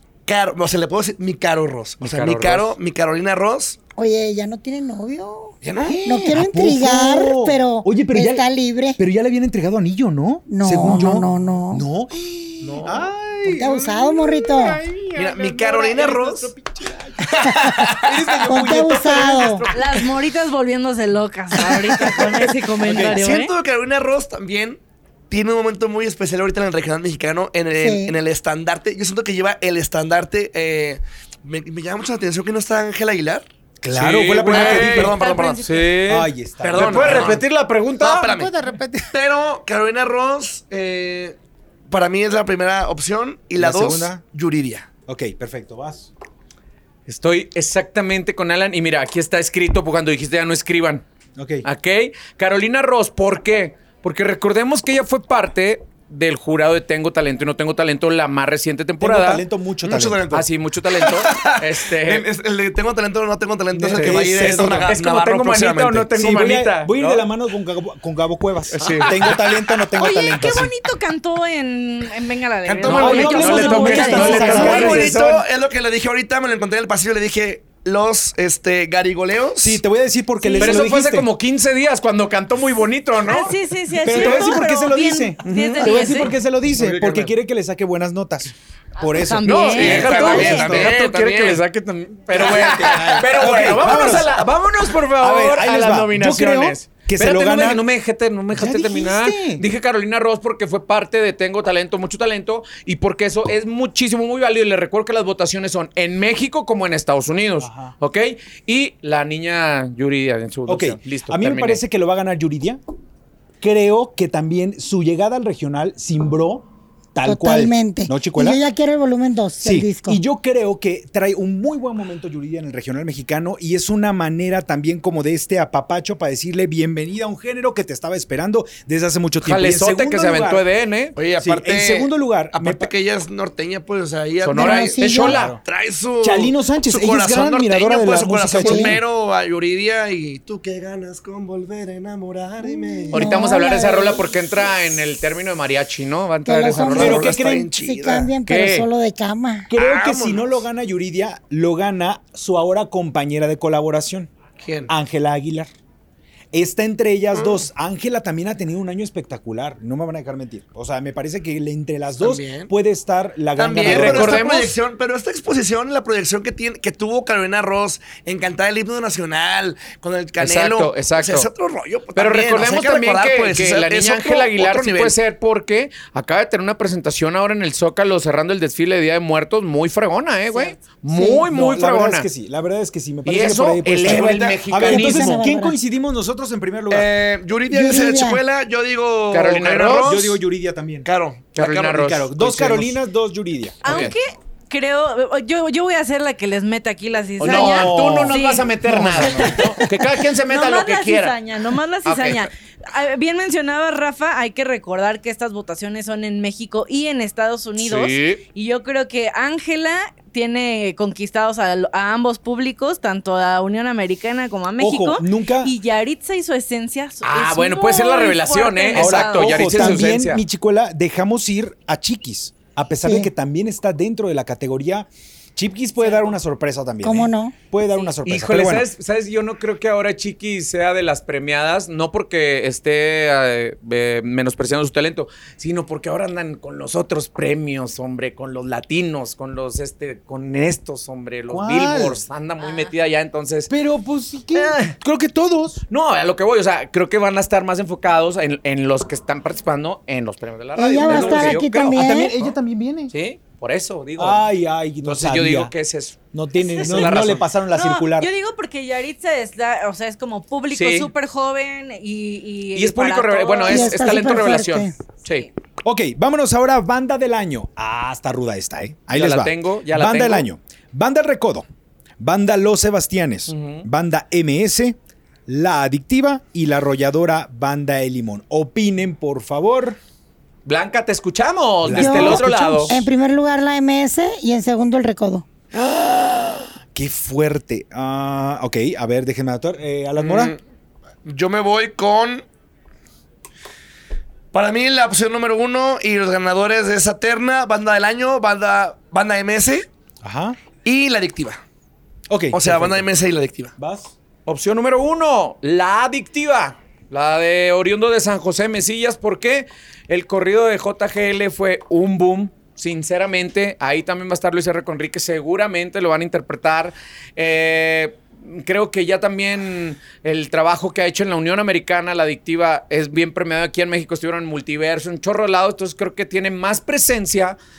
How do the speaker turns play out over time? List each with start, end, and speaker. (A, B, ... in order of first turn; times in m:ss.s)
0:00.2-0:03.8 A
0:02.0-0:02.7 B
0:04.0-0:09.0 C
0:05.6-0:06.0 A
0:05.8-0:08.4 D
0:09.0-0:19.9 D
0:10.5-0:11.8 C
0:12.6-0:13.1 A
0:13.4-0:14.8 C
0:15.1-0:16.5 A
0:17.2-0:18.4 A
0:18.5-0:19.6 C
0:19.7-0:23.5 E
0:21.9-0:22.2 D
0:22.8-0:33.4 A
0:27.8-0:28.2 C
0:33.8-0:35.2 D
0:33.9-0:38.3 B
0:34.4-0:35.8 A
0:34.8-0:35.8 E
0:36.0-0:37.4 D
0:36.7-0:37.4 A
0:38.0-0:38.5 A
0:38.2-0:39.1 D
0:39.1-0:41.4 A
0:41.9-0:44.9 A
0:43.6-0:44.2 D
0:45.1-0:46.1 D
0:47.1-0:51.0 B
0:51.4-0:51.6 D
0:51.6-0:59.4 B
0:59.0-1:00.3 D
0:59.8-1:00.4 A
1:00.3-1:02.2 B
1:00.9-1:06.0 A
1:03.8-1:05.0 D
1:03.8-1:07.2 B
1:06.1-1:10.7 D
1:08.7-1:09.3 B
1:08.8-1:09.4 A
1:10.0-1:15.0 E
1:12.7-1:15.4 B
1:12.8-1:19.8 A
1:12.9-1:15.1 D
1:13.6-1:14.3 C
1:19.6-1:21.3 D
1:20.6-1:24.5 B
1:23.2-1:26.3 E
1:24.0-1:30.4 D
1:25.4-1:26.1 B
1:26.7-1:27.3 A
1:29.2-1:30.9 E
1:29.4-1:51.8 B
1:29.7-1:31.6 A
1:32.4-1:33.7 A
1:32.4-1:34.4 D
1:35.2-1:37.8 D
1:38.5-1:39.6 D
1:47.6-1:47.9 D
1:50.7-1:52.8 D
1:53.6-1:58.6 D
1:57.2-2:00.2 C
1:59.6-2:10.6 D
2:09.4-2:11.2 B
2:11.2-2:23.4 A
2:11.4-2:12.9 D
2:14.4-2:15.6 B
2:14.6-2:15.4 C
2:15.1-2:15.6 D
2:16.2-2:19.0 D
2:18.6-2:19.0 C
2:22.6-2:24.6 C
2:23.1-2:27.3 B
2:26.4-2:29.7 C
2:26.9-2:28.3 A
2:27.0-2:27.7 D
2:28.4-2:28.9 B
2:29.7-2:34.3 D
2:29.8-2:30.5 A
2:34.6-2:34.9 A
2:34.9-2:35.7 D
2:36.5-2:44.5 D
2:37.3-2:37.6 A
2:42.2-2:42.7 A
2:43.6-2:55.1 A
2:43.8-2:44.7 B
2:50.4-2:51.5 B
2:52.2-3:02.3 B
3:00.5-3:00.8 E
3:01.1-3:01.4 C
3:01.5-3:07.1 D
3:03.2-3:05.4 B
3:04.0-3:04.6 A
3:04.9-3:05.8 C
3:06.9-3:10.4 A
3:07.7-3:08.4 C
3:09.3-3:10.2 B
3:10.0-3:11.1 D
3:11.0-3:11.9 A
3:11.5-3:12.9 B
3:11.6-3:14.1 D
3:13.8-3:14.1 B
3:13.8-3:19.9 E
3:17.4-3:21.4 B
3:17.4-3:19.8 D
3:20.4-3:39.9 E
3:22.0-3:22.5 B
3:27.8-3:28.4 B
3:34.8-3:35.7 D
3:37.2-3:40.4 B
3:38.9-3:48.9 D
3:43.0-3:43.3 C
3:47.0-3:47.6 C
3:48.2-4:03.7 B
4:01.5-4:02.2 D
4:02.6-4:02.9 E
4:03.7-4:05.8 D
4:04.5-4:04.9 B
4:05.9-4:12.5 B
4:10.8-4:12.3 C
4:11.0-4:13.1 D
4:13.1-4:14.5 B
4:14.2-4:15.7 D
4:15.0-4:16.2 B
4:16.3-4:18.3 D
4:16.6-4:24.0 E
4:16.8-4:17.4 B
4:20.7-4:21.1 B
4:22.7-4:25.5 B
4:23.7-4:24.9 C
4:25.8-4:31.6 D
4:29.1-4:30.5 B
4:32.2-4:40.0 D
4:33.5-4:33.8 B
4:40.6-4:42.9 B
4:41.8-4:43.1 D
4:41.9-4:45.4 C
4:45.7-4:50.5 D
4:50.2-4:50.6 A
4:51.2-4:52.4 A
4:54.5-4:59.9 A
5:00.2-5:00.6 D
5:00.8-5:01.6 A
5:02.3-5:03.1 D
5:02.5-5:03.7 A
5:03.8-5:04.1 D
5:04.4-5:27.6 B